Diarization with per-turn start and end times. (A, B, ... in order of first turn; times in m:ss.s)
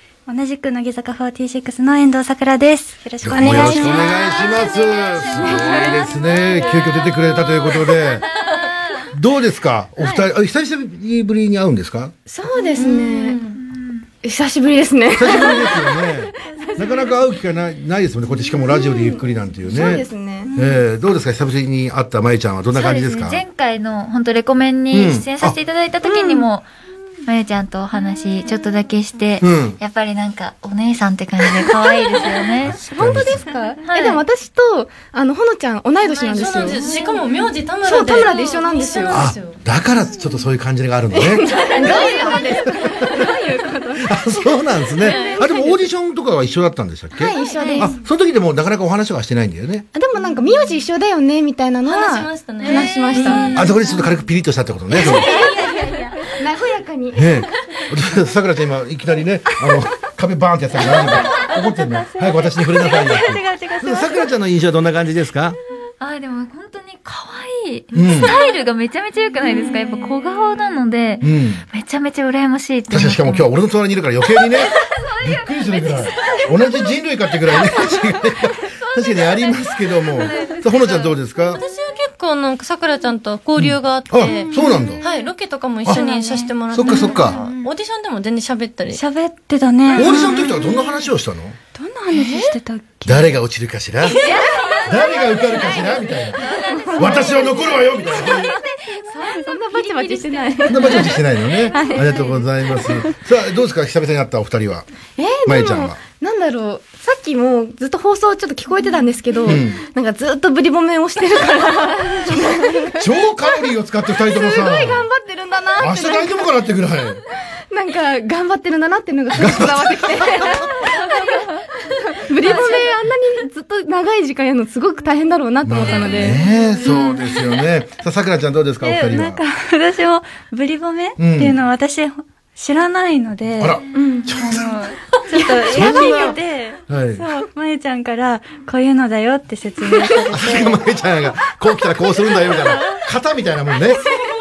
0:00.3-0:04.1 A
0:03.2-0:08.2 B
0:03.4-0:03.8 C
0:03.6-0:06.8 D
0:08.5-0:09.0 D
0:09.1-0:12.1 B
0:10.0-0:10.2 C
0:12.3-0:13.4 C
0:12.8-0:14.0 D
0:14.2-0:17.0 C
0:15.1-0:23.4 B
0:18.9-0:20.5 C
0:22.7-0:26.7 D
0:24.9-0:25.6 B
0:26.0-0:26.5 C
0:27.2-0:32.8 D
0:29.4-0:29.8 B
0:32.6-0:33.4 B
0:32.6-0:37.1 C
0:33.8-0:34.2 D
0:36.1-0:39.6 E
0:37.8-0:39.3 C
0:39.1-0:41.6 B
0:41.2-0:45.8 C
0:41.9-0:42.2 E
0:41.9-0:42.2 D
0:42.8-0:43.3 B
0:44.0-0:49.8 B
0:45.0-0:45.4 E
0:47.1-0:47.9 C
0:47.5-0:47.9 D
0:49.9-0:53.5 C
0:51.8-0:53.5 E
0:52.7-0:53.7 D
0:53.2-0:53.7 A
0:53.5-0:55.3 B
0:55.0-0:57.4 C
0:55.0-0:55.9 D
0:57.1-1:05.6 B
1:02.0-1:04.3 A
1:06.0-1:13.5 D
1:07.9-1:08.4 B
1:11.2-1:11.6 B
1:12.9-1:21.6 B
1:14.6-1:15.3 D
1:15.9-1:16.4 D
1:20.4-1:29.0 E
1:23.6-1:25.0 B
1:24.8-1:25.1 A
1:25.9-1:27.2 A
1:26.7-1:27.4 B
1:28.9-1:30.6 A
1:29.9-1:31.6 B
1:31.7-1:33.3 A
1:33.0-1:38.5 B
1:34.1-1:42.3 D
1:34.2-1:34.7 C
1:36.6-1:37.0 C
1:39.1-1:41.2 C
1:40.7-1:44.8 B
1:41.7-1:42.2 C
1:45.2-1:53.0 C
1:45.4-1:46.0 B
1:49.4-1:49.8 B
1:52.3-1:55.1 B
1:54.2-1:56.4 C
1:55.8-1:57.2 B
1:57.7-2:06.4 C
1:59.3-2:00.5 B
2:02.4-2:02.9 D
2:05.6-2:09.4 B
2:08.8-2:13.8 A
2:11.2-2:11.6 B
2:13.6-2:15.0 B
2:13.9-2:14.3 C
2:14.6-2:14.9 D
2:15.3-2:20.8 A
2:15.6-2:17.2 B
2:20.3-2:24.0 B